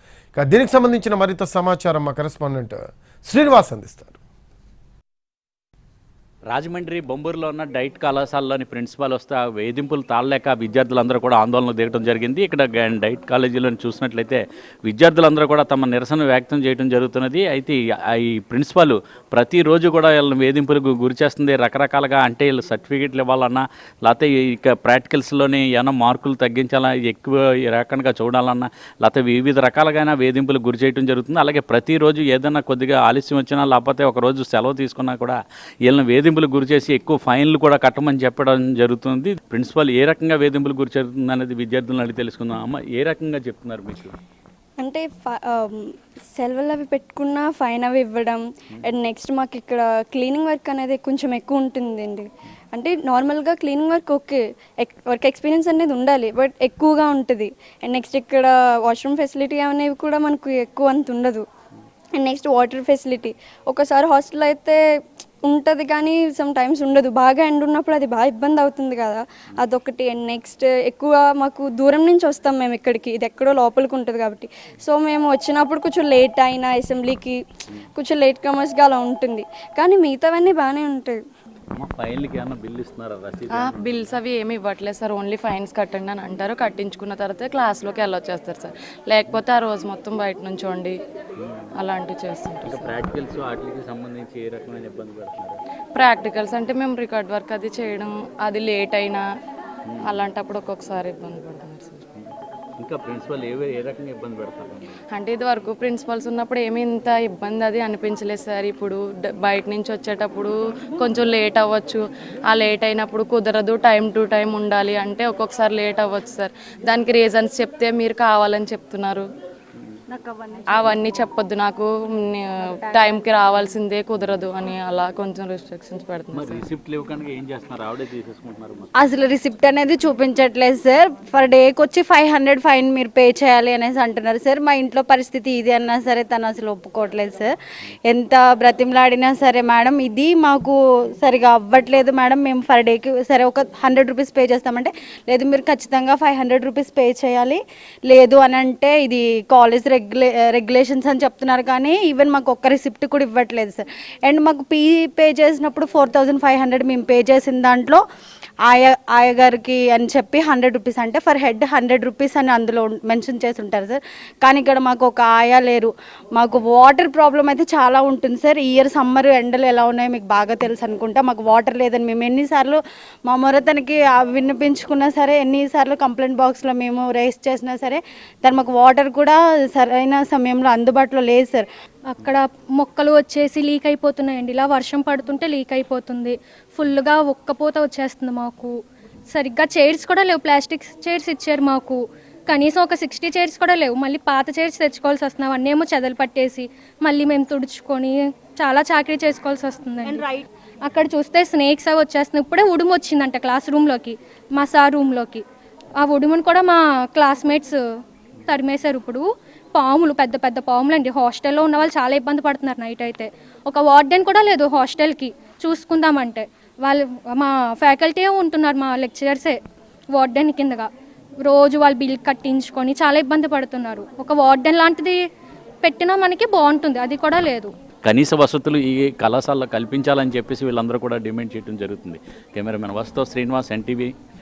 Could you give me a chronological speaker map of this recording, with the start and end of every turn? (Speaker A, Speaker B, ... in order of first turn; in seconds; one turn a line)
Speaker A: 0.3-4.2
Speaker B: 6.5-44.2
Speaker C: 44.8-61.5
Speaker C: 62.2-77.4
Speaker C: 78.0-81.2
Speaker B: 81.7-84.2
Speaker D: 83.5-91.0
Speaker B: 91.4-91.7
Speaker D: 91.8-93.0
Speaker B: 92.6-95.6
Speaker D: 95.9-99.2
Speaker B: 99.9-100.2
Speaker D: 100.0-102.0
Speaker B: 102.2-104.9
Speaker D: 105.1-119.3
Speaker E: 120.1-121.1
Speaker D: 120.7-126.7
Speaker E: 122.9-123.3
Speaker B: 126.3-128.9
Speaker E: 129.0-137.5
Speaker E: 138.1-158.0
Speaker E: 158.7-181.7
Speaker F: 182.1-188.7
Speaker F: 189.3-200.2
Speaker E: 200.1-200.4
Speaker F: 200.8-205.4
Speaker F: 206.0-207.8
Speaker F: 208.5-219.6
Speaker F: 220.1-220.9
Speaker F: 221.4-225.2
Speaker F: 225.8-227.7
Speaker B: 228.0-234.1